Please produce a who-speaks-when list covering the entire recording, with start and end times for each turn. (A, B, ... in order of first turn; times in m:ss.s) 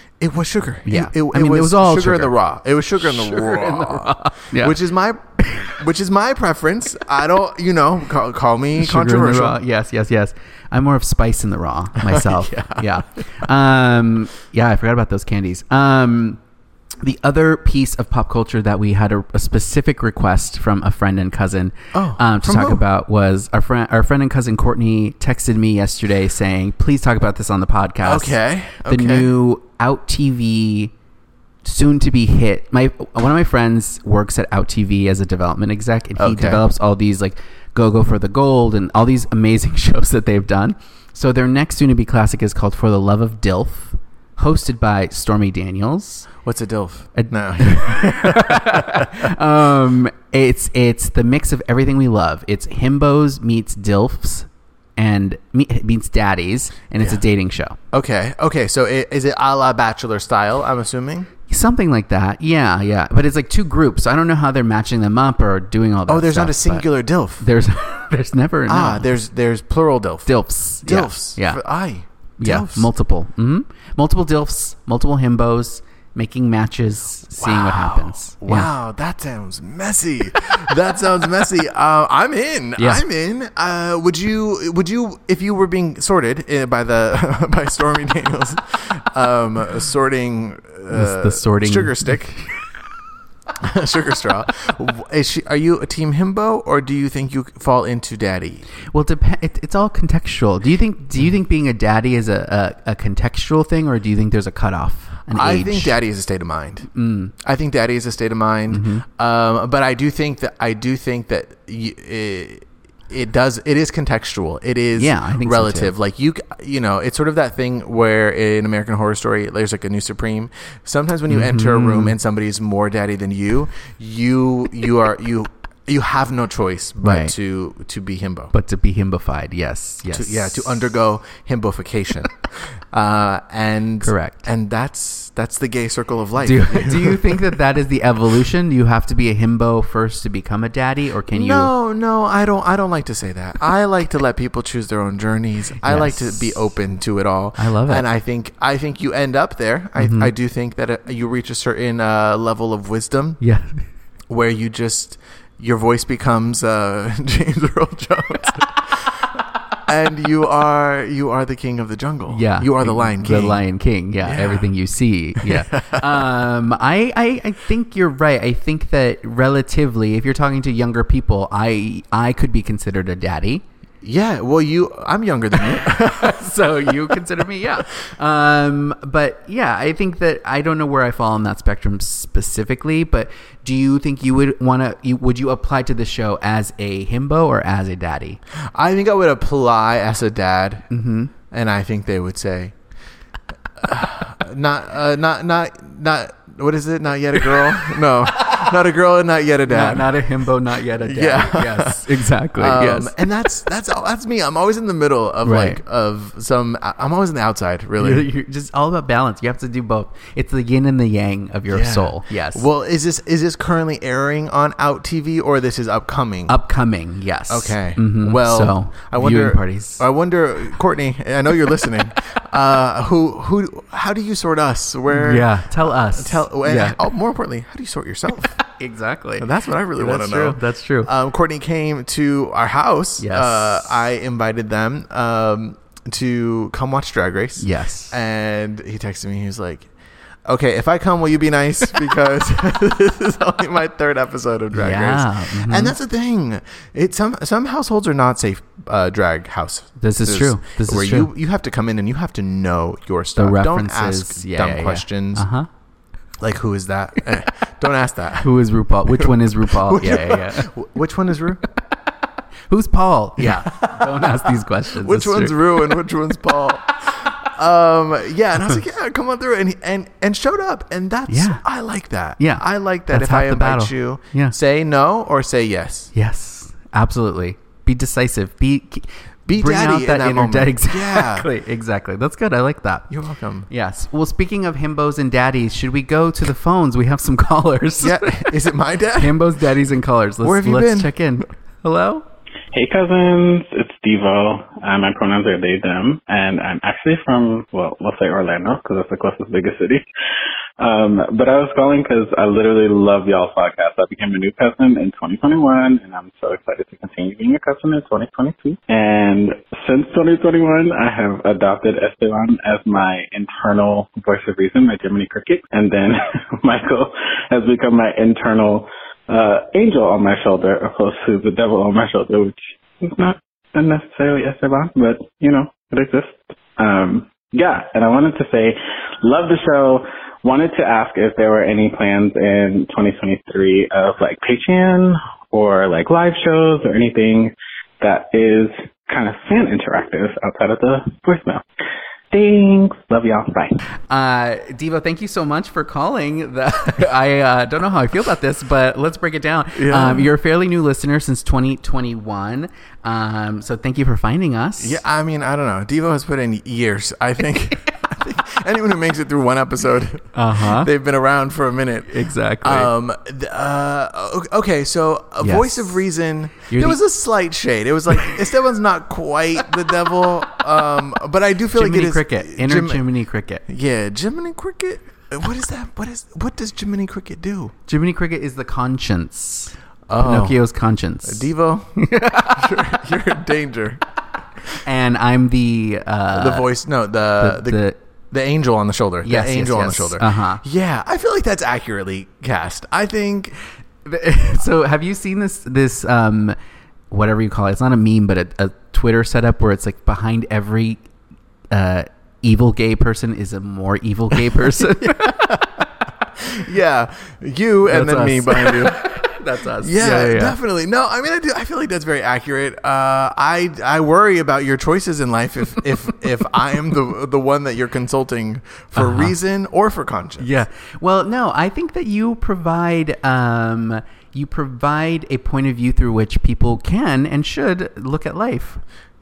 0:00.2-0:09.6 A
0:00.9-0:02.3 B
0:03.0-0:04.8 B
0:05.4-0:05.7 B
0:08.8-0:16.4 B
0:12.0-0:12.9 A
0:17.0-0:30.9 B
0:21.9-0:22.8 A
0:28.0-0:29.3 A
0:31.6-0:46.3 B
0:36.2-0:36.6 A
0:46.4-0:49.3 A
0:47.1-0:57.8 B
0:57.9-1:01.3 A
1:01.5-1:06.9 B
1:06.1-1:07.4 A
1:07.4-1:09.0 B
1:08.7-1:12.9 A
1:10.2-1:11.6 B
1:12.4-1:18.7 B
1:17.4-1:32.3 A
1:22.8-1:23.0 B
1:30.9-1:32.5 B
1:33.6-1:38.6 A
1:38.9-1:46.0 B
1:45.3-1:46.9 A
1:46.9-1:47.3 B
1:47.4-2:08.5 A
1:48.7-1:49.0 B
1:54.9-1:55.9 B
2:01.3-2:02.1 B
2:07.0-2:07.3 B
2:08.5-2:10.6 B
2:10.1-2:17.5 A
2:14.0-2:14.5 B
2:16.4-2:21.7 B
2:21.3-2:33.4 A
2:25.8-2:26.5 B
2:27.6-2:28.0 B
2:30.0-2:30.3 B
2:33.4-2:33.8 B
2:34.3-2:39.2 A
2:39.9-2:43.6 A
2:42.3-2:53.6 B
2:44.2-2:44.7 A
2:45.4-2:46.2 A
2:54.0-2:57.4 A
2:55.8-3:08.4 B
3:08.7-3:10.9 A
3:10.9-3:11.3 B
3:11.5-3:12.7 A
3:13.8-3:20.1 A
3:17.6-3:18.0 B
3:19.7-3:23.1 B
3:21.0-3:28.3 A
3:25.4-3:25.8 B
3:28.0-3:32.6 B
3:31.7-3:36.6 A
3:36.5-3:40.0 B
3:37.5-3:48.6 A
3:45.1-3:47.0 B
3:48.8-3:51.1 B
3:49.4-3:59.9 A
3:53.2-3:53.9 B
3:57.6-3:58.1 B
4:00.4-4:15.4 A
4:04.7-4:05.9 B
4:10.0-4:11.3 B
4:13.4-4:15.7 B
4:16.4-4:18.5 A
4:18.4-4:20.7 B
4:19.0-4:21.6 A
4:22.7-4:25.9 B
4:23.4-4:36.1 A
4:31.3-4:31.6 B
4:32.4-4:34.5 B
4:36.1-4:43.1 B
4:39.4-4:41.5 A
4:43.1-4:43.7 A
4:43.7-4:48.6 B
4:48.0-4:49.5 A
4:49.1-4:52.2 B
4:50.4-4:51.1 A
4:52.7-5:00.0 C
5:00.8-5:41.6 C
5:42.3-5:43.8 C
5:44.1-5:55.0 B
5:49.7-5:50.3 A
5:54.8-6:13.0 A
6:00.3-6:00.9 B
6:02.1-6:02.9 B
6:05.4-6:06.0 B
6:06.7-6:07.0 B
6:11.7-6:13.6 B
6:13.7-6:17.7 A
6:17.9-6:23.0 B
6:20.1-6:20.6 A
6:21.2-6:21.9 A
6:22.5-6:24.0 A
6:24.8-6:26.7 B
6:26.3-6:33.5 A
6:27.4-6:28.0 B
6:29.2-6:30.6 B
6:34.0-6:36.6 B
6:37.1-6:41.0 B
6:41.7-6:45.6 B
6:44.9-6:45.6 A
6:46.4-6:49.2 A
6:47.8-6:50.6 B
6:49.8-7:00.5 A
6:59.0-6:59.3 B
7:00.4-7:08.8 B